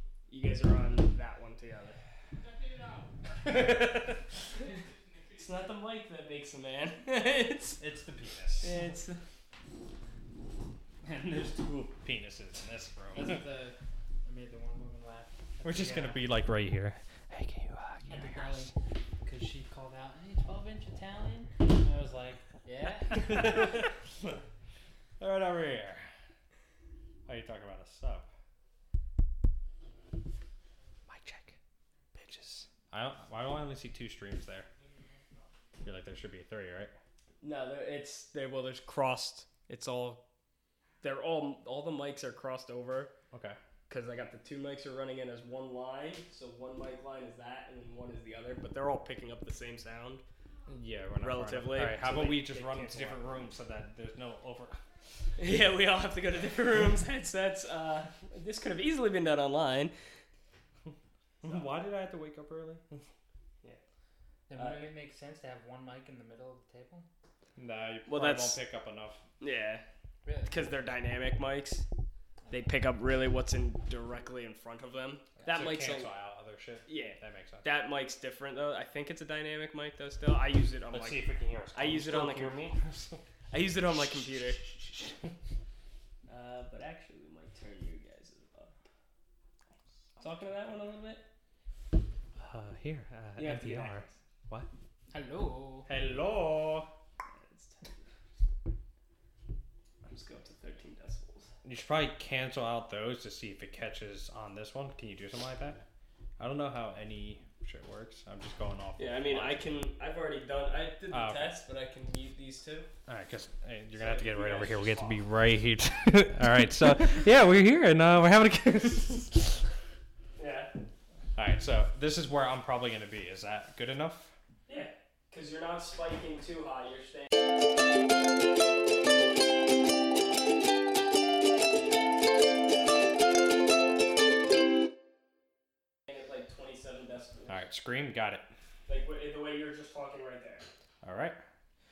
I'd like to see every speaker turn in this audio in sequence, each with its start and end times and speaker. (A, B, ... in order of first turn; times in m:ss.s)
0:00.3-0:02.0 A
0:05.3-0:07.8 A
0:07.8-0:08.8 B
0:08.6-0:09.2 A
0:11.0-0:13.4 B
0:13.1-0:16.2 C
0:15.6-0:18.7 B
0:18.1-0:18.7 C
0:19.2-0:23.7 C
0:23.1-0:24.4 B
0:25.2-0:26.0 B
0:27.2-0:28.2 B
0:31.1-0:31.5 B
0:32.1-0:34.7 B
0:35.8-0:36.9 B
0:37.4-0:40.2 A
0:41.0-0:43.1 A
0:43.9-0:50.2 A
0:50.7-0:54.8 B
0:51.2-0:53.4 A
0:55.4-0:59.9 A
1:01.4-1:03.0 B
1:04.5-1:07.0 C
1:04.6-1:04.9 A
1:07.6-1:09.2 B
1:08.1-1:08.6 A
1:09.4-1:09.8 A
1:10.4-1:11.8 A
1:12.5-1:16.1 A
1:15.4-1:17.7 B
1:16.9-1:21.2 A
1:20.9-1:23.2 B
1:21.7-1:22.6 A
1:23.5-1:24.6 A
1:24.6-1:25.2 B
1:26.3-1:28.7 A
1:30.2-1:31.2 A
1:32.4-1:34.7 B
1:33.4-1:34.1 A
1:35.1-1:35.8 C
1:35.9-1:36.9 B
1:37.3-1:38.0 A
1:40.0-1:41.5 A
1:41.6-1:45.8 B
1:46.4-1:49.8 B
1:49.0-1:52.9 A
1:51.1-1:51.5 B
1:53.1-1:59.6 B
1:53.9-1:55.2 A
2:00.4-2:00.7 A
2:01.4-2:04.3 B
2:04.7-2:07.3 A
2:16.1-2:17.5 A
2:17.5-2:18.4 B
2:18.9-2:20.6 A
2:21.0-2:21.4 B